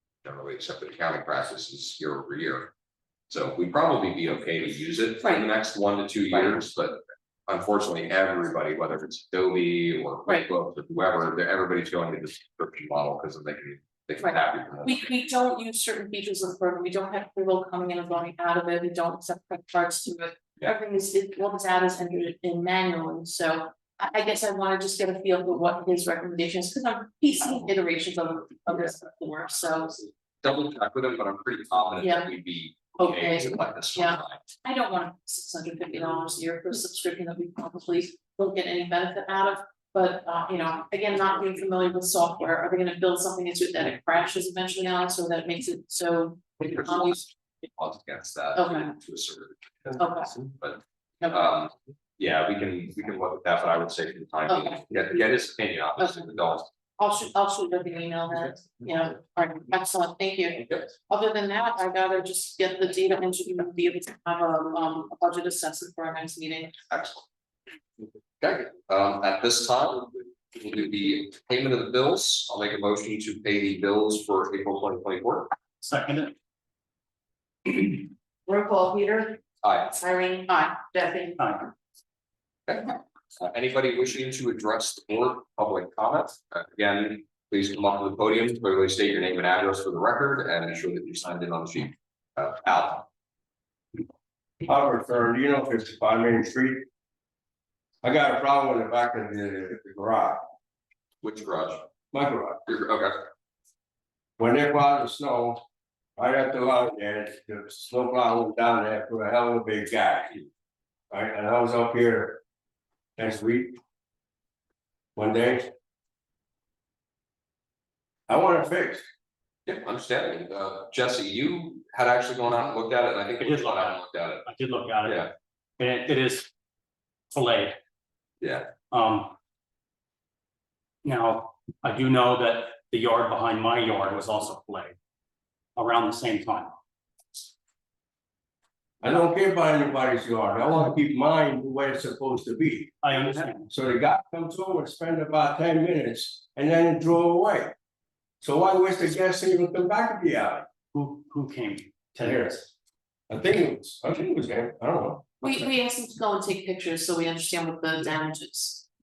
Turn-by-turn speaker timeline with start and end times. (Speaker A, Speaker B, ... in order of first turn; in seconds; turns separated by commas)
Speaker A: 0.2-2.7, Speaker A: 3.3-15.1, Speaker B: 5.2-5.5, Speaker B: 14.2-30.0, Speaker A: 30.4-34.4, Speaker B: 32.0-32.3, Speaker B: 33.0-47.2, Speaker A: 46.6-47.2, Speaker A: 47.8-56.7, Speaker B: 48.5-48.9, Speaker B: 50.0-50.3, Speaker B: 51.2-51.5, Speaker B: 54.5-54.8, Speaker B: 56.0-56.2, Speaker B: 57.0-66.7, Speaker A: 60.6-60.9, Speaker A: 66.9-67.2, Speaker A: 68.4-75.5, Speaker C: 75.8-76.3, Speaker D: 78.5-79.4, Speaker A: 79.6-80.0, Speaker D: 80.0-81.4, Speaker B: 80.5-80.8, Speaker C: 81.4-81.7, Speaker A: 82.7-93.0, Speaker E: 94.6-96.8, Speaker E: 98.0-100.4, Speaker A: 101.2-101.8, Speaker E: 102.1-102.6, Speaker A: 102.7-103.2, Speaker E: 104.4-105.6, Speaker E: 106.2-110.5, Speaker E: 111.1-112.4, Speaker E: 113.2-113.8, Speaker E: 115.2-115.7, Speaker E: 118.3-119.0, Speaker A: 119.7-124.5, Speaker C: 123.4-126.5, Speaker A: 125.0-125.3, Speaker C: 127.3-127.8, Speaker A: 128.4-128.7, Speaker C: 128.9-129.3, Speaker C: 131.0-134.9, Speaker C: 135.8-136.7, Speaker E: 139.0-147.7, Speaker C: 143.0-143.7, Speaker E: 148.4-150.7, Speaker C: 150.9-152.6, Speaker E: 152.2-152.6, Speaker E: 153.3-155.6, Speaker B: 155.4-158.8